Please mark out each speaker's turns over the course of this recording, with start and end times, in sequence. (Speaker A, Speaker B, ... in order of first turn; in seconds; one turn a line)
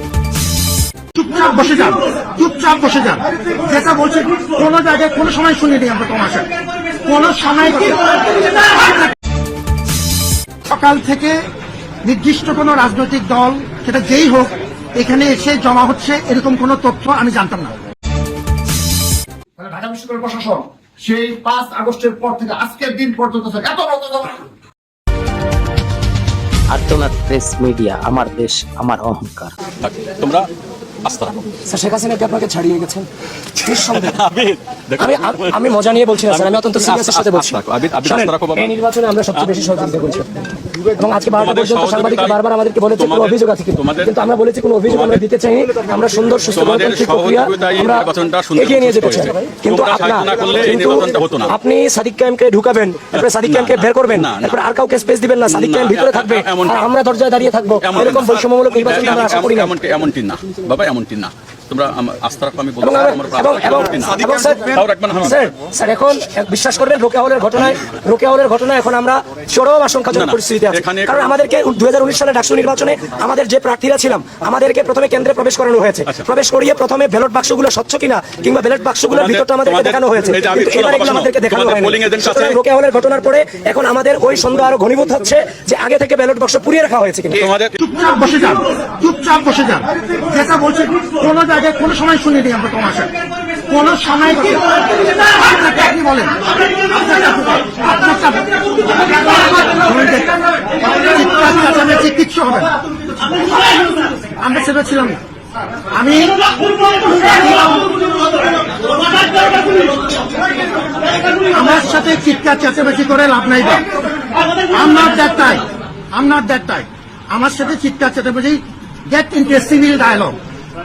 Speaker A: 1.1-6.5
Speaker A: 7.0-9.1
Speaker A: 10.7-11.4
Speaker A: 12.0-17.7
Speaker B: 19.6-24.4
Speaker C: 26.7-29.5
Speaker D: 29.8-30.5
Speaker D: 31.0-31.4
Speaker E: 31.7-33.1
Speaker E: 33.6-34.1
Speaker D: 33.8-35.6
Speaker E: 35.0-40.3
Speaker D: 36.2-38.7
Speaker E: 41.0-59.7
Speaker D: 41.4-42.4
Speaker D: 42.9-44.1
Speaker D: 44.9-45.2
Speaker D: 46.5-51.5
Speaker D: 53.1-54.6
Speaker D: 55.5-56.9
Speaker D: 57.8-65.4
Speaker E: 62.8-64.6
Speaker B: 64.3-64.8
Speaker E: 65.2-87.4
Speaker D: 70.1-71.3
Speaker D: 79.1-82.6
Speaker D: 87.4-87.8
Speaker A: 87.8-93.2
Speaker A: 93.7-102.7
Speaker A: 103.7-105.2
Speaker A: 105.9-106.4
Speaker A: 106.9-107.9
Speaker A: 111.4-113.8
Speaker A: 114.7-120.4